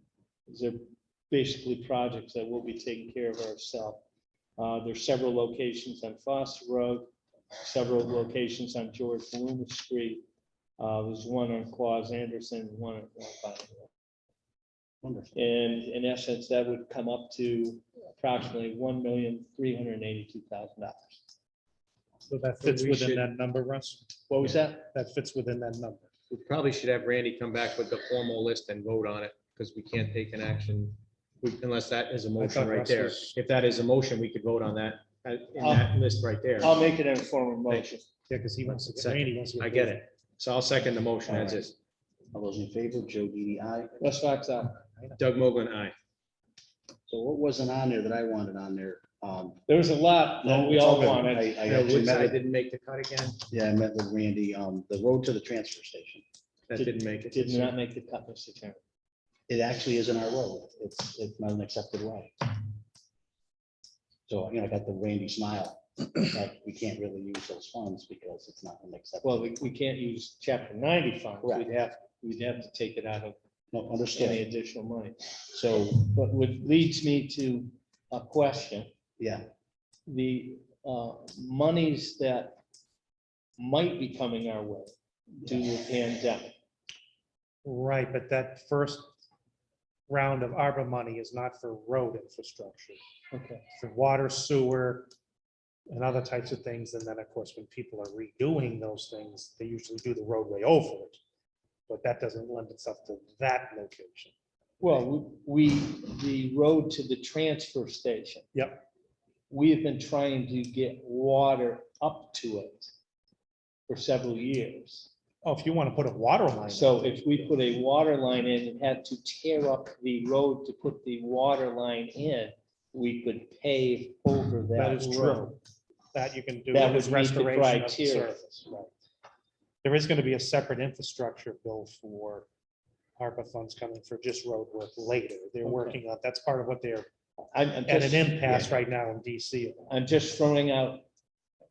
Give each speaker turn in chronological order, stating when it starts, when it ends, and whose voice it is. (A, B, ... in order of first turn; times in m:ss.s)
0:00.5-0:04.0 A
0:04.6-0:10.2 A
0:10.8-0:13.9 A
0:15.0-0:15.4 B
0:15.3-0:21.2 A
0:22.3-0:24.1 C
0:22.6-0:23.2 D
0:24.3-0:24.9 A
0:24.8-0:26.1 C
0:26.3-0:36.8 D
0:32.4-0:33.3 C
0:35.6-0:35.9 A
0:36.6-0:38.0 A
0:37.7-0:37.9 D
0:38.3-0:40.0 C
0:38.7-0:41.7 D
0:41.3-0:41.6 B
0:42.3-0:44.0 B
0:44.0-0:44.8 A
0:45.2-0:45.9 D
0:47.1-0:49.6 B
0:49.7-0:51.6 A
0:50.4-0:52.4 B
0:51.6-0:53.4 D
0:53.5-0:56.2 B
0:56.7-0:57.7 D
0:56.8-0:58.8 A
0:59.5-1:02.6 B
1:04.3-1:09.5 B
1:09.2-1:13.4 A
1:11.4-1:11.7 B
1:13.7-1:14.4 B
1:14.1-1:18.9 A
1:15.5-1:16.0 B
1:19.2-1:19.5 B
1:20.1-1:22.6 A
1:23.6-1:26.5 A
1:27.6-1:29.1 C
1:30.1-1:33.0 C
1:33.3-1:33.6 A
1:33.8-1:35.1 C
1:35.9-1:41.2 C
1:41.9-1:44.3 C
1:44.8-1:48.5 A
1:48.5-1:48.8 C
1:49.5-1:52.9 A
1:53.9-1:55.1 A
1:55.4-1:57.5 C
1:56.7-2:05.6 A
2:04.7-2:05.6 C
2:06.1-2:08.9 C
2:06.7-2:08.4 A
2:09.8-2:12.5 C
2:13.2-2:17.1 C
2:15.6-2:16.0 A
2:17.5-2:18.7 A
2:17.9-2:19.9 C
2:19.9-2:21.0 A